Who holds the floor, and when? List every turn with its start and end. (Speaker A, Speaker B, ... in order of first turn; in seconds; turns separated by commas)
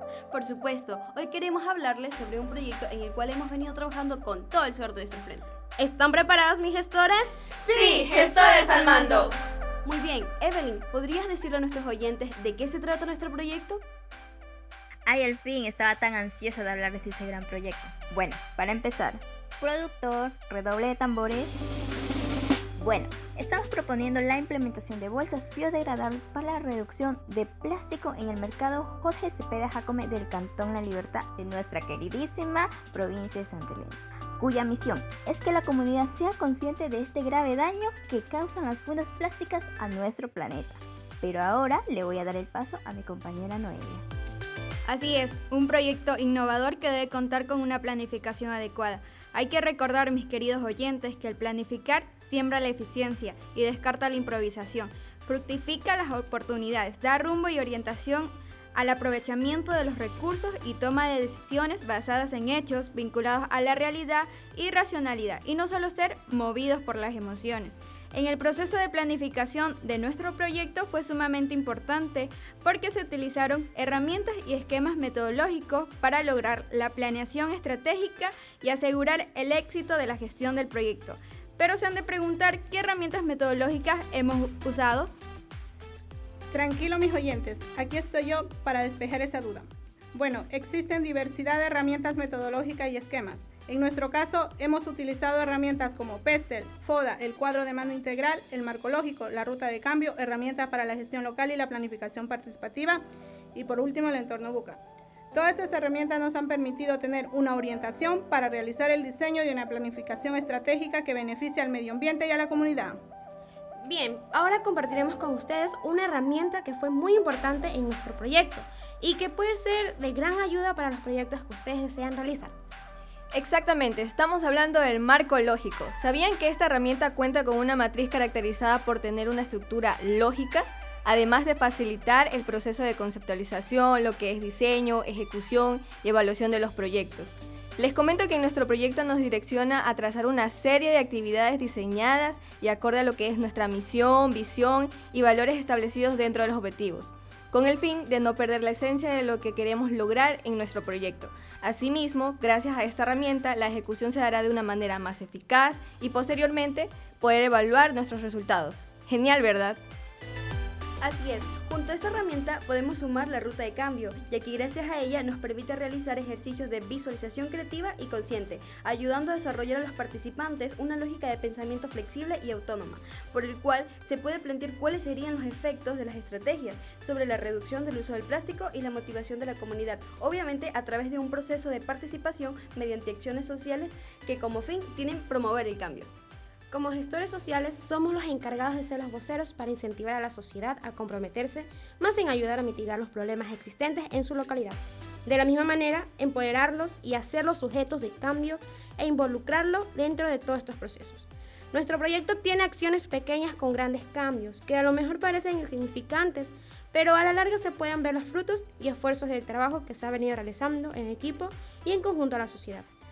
Speaker A: 0.3-5.6, Speaker B: 5.8-7.5, Speaker C: 7.6-9.3, Speaker A: 9.8-13.8, Speaker D: 15.1-21.6, Speaker D: 22.8-44.0, Speaker E: 44.9-85.1, Speaker F: 86.5-103.0, Speaker F: 103.5-104.8, Speaker F: 105.3-113.0, Speaker B: 113.8-122.5, Speaker C: 123.3-159.8, Speaker A: 161.0-186.1, Speaker B: 186.7-212.9